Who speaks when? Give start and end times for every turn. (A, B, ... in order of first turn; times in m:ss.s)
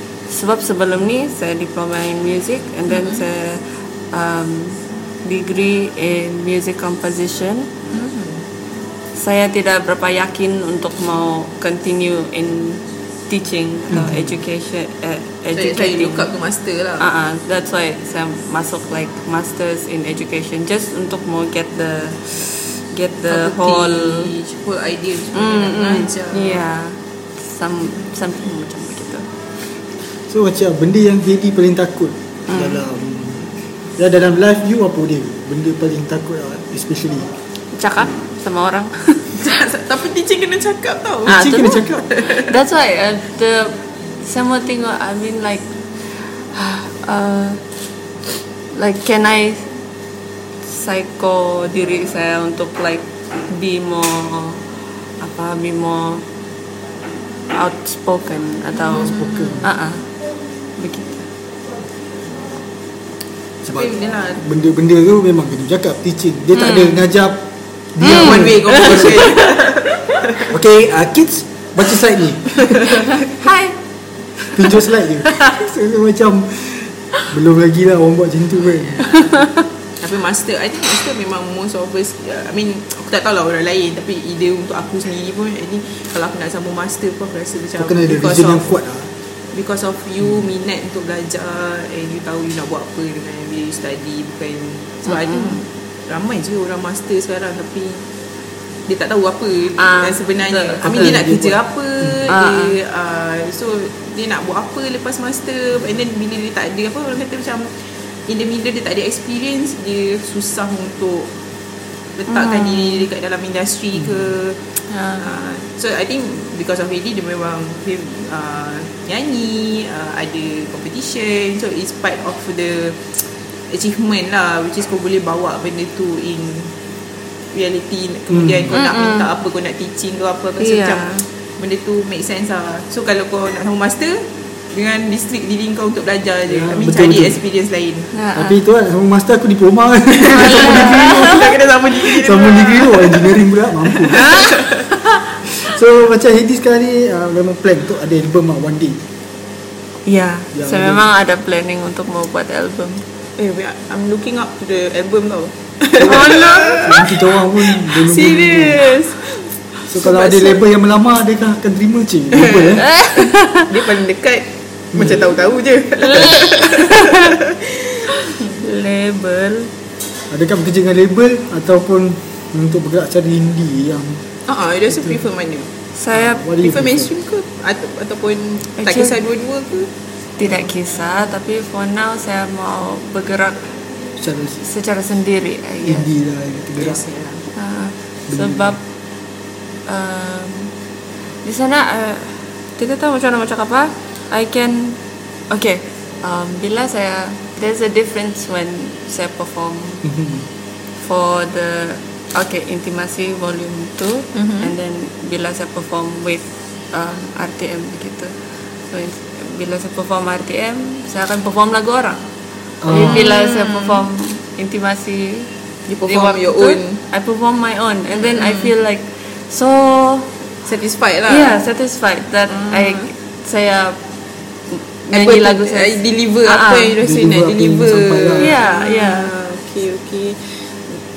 0:00.3-0:07.7 A
0:02.9-0:03.2 B
0:07.9-0:08.4 B
0:09.2-0:16.3 A
0:13.9-0:14.3 C
0:15.6-0:17.1 B
0:17.0-0:24.3 A
0:23.3-0:26.6 B
0:25.3-0:29.3 A
0:30.3-0:37.3 C
0:32.5-0:32.8 A
0:37.7-0:39.3 A
0:39.3-0:41.4 B
0:41.2-0:42.0 C
0:41.3-0:47.6 A
0:42.0-0:42.5 B
0:48.7-0:49.7 A
0:50.6-0:54.6 A
0:55.2-0:56.2 A
0:57.5-1:00.0 A
0:58.9-0:59.6 B
0:59.0-0:59.7 C
1:00.8-1:01.2 A
1:03.6-1:09.3 C
1:03.7-1:04.4 B
1:06.5-1:07.0 A
1:08.0-1:09.4 A
1:08.0-1:10.5 B
1:10.5-1:13.1 C
1:13.2-1:13.8 A
1:14.5-1:19.1 C
1:19.1-1:19.5 A
1:20.0-1:28.7 B
1:27.8-1:29.1 C
1:29.5-1:38.0 B
1:35.0-1:35.6 A
1:38.9-1:51.3 B
1:39.8-1:40.9 A
1:40.8-1:42.1 C
1:42.3-1:42.8 A
1:52.2-2:06.7 B
1:52.3-1:53.1 A
1:54.9-1:55.2 A
2:07.5-2:18.1 B
2:08.3-2:08.7 C
2:08.7-2:09.3 A
2:10.6-2:11.2 A
2:16.5-2:17.4 C
2:18.1-2:18.6 A
2:18.3-2:24.3 C
2:20.2-2:24.9 B
2:20.3-2:21.4 A
2:24.1-2:24.6 A
2:25.5-2:29.0 C
2:30.0-2:33.0 A
2:30.5-2:31.0 C
2:33.4-2:39.4 B
2:36.0-2:36.9 A
2:36.0-2:38.9 C
2:39.9-2:42.8 C
2:39.9-2:40.6 B
2:42.3-2:48.5 B
2:42.8-2:43.7 A
2:46.0-2:47.4 A
2:48.2-2:49.7 A
2:50.3-2:54.2 C
2:54.5-2:55.7 B
2:56.0-2:56.4 A
2:56.1-2:57.1 C
2:56.6-2:59.9 B
2:58.8-2:59.2 A
3:00.4-3:03.7 A
3:04.2-3:04.6 C
3:04.6-3:06.1 A
3:05.8-3:07.0 C
3:06.8-3:07.4 B
3:07.6-3:08.8 A
3:08.3-3:08.8 C
3:09.9-3:10.7 A
3:11.4-3:20.0 A
3:20.0-3:20.4 C
3:21.0-3:28.4 A
3:24.3-3:24.7 B
3:28.9-3:32.2 A
3:32.8-3:33.2 C
3:32.9-3:35.5 A
3:32.9-3:34.0 B
3:35.9-3:37.0 B
3:36.1-3:40.3 A
3:38.2-3:38.7 B
3:40.6-3:41.6 B
3:41.3-3:44.0 A
3:42.5-3:43.1 B
3:44.7-3:46.9 A
3:45.1-3:51.0 B
3:47.0-3:48.5 C
3:48.4-3:49.3 A